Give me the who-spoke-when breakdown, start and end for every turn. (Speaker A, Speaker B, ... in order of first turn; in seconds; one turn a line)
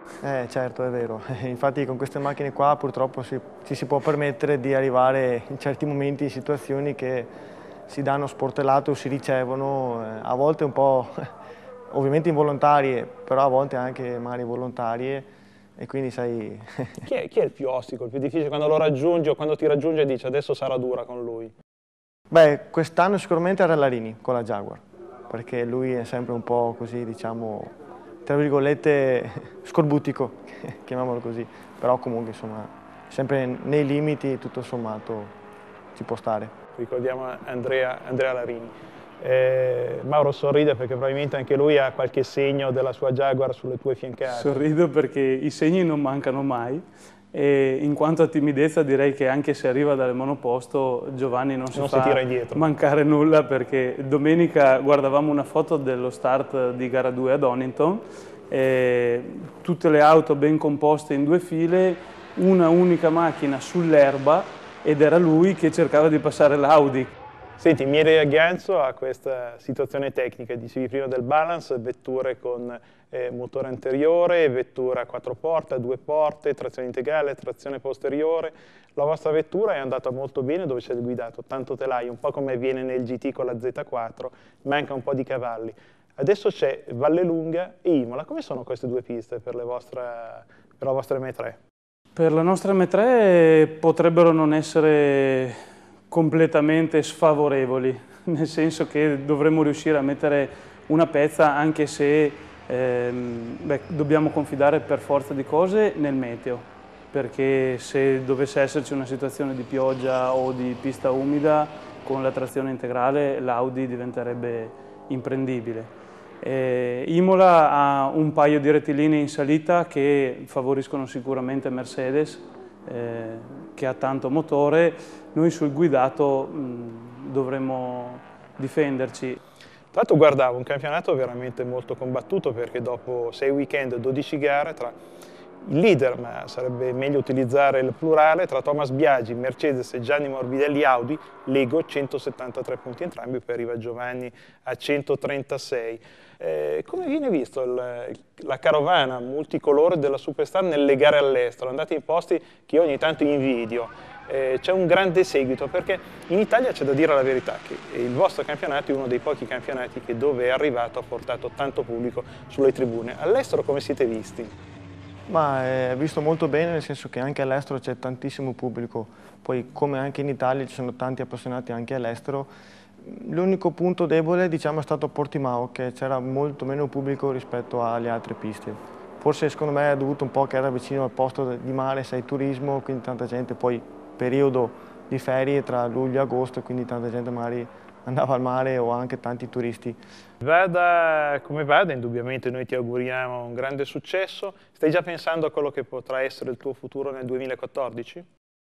Speaker A: 0.2-7.3
Speaker A: 7.9-11.2
Speaker A: 11.9-15.3
Speaker A: 15.8-17.1
Speaker B: 17.1-21.5
Speaker A: 22.3-27.7
Speaker A: 28.2-35.3
Speaker A: 35.9-36.5
Speaker B: 36.8-44.6
Speaker C: 44.3-67.1
Speaker B: 51.7-52.6
Speaker B: 67.6-91.6
Speaker C: 92.1-95.6
Speaker C: 96.1-129.4
Speaker B: 129.9-134.9
Speaker B: 135.6-164.5
Speaker A: 165.3-172.5
Speaker A: 173.0-190.0
Speaker B: 190.4-198.2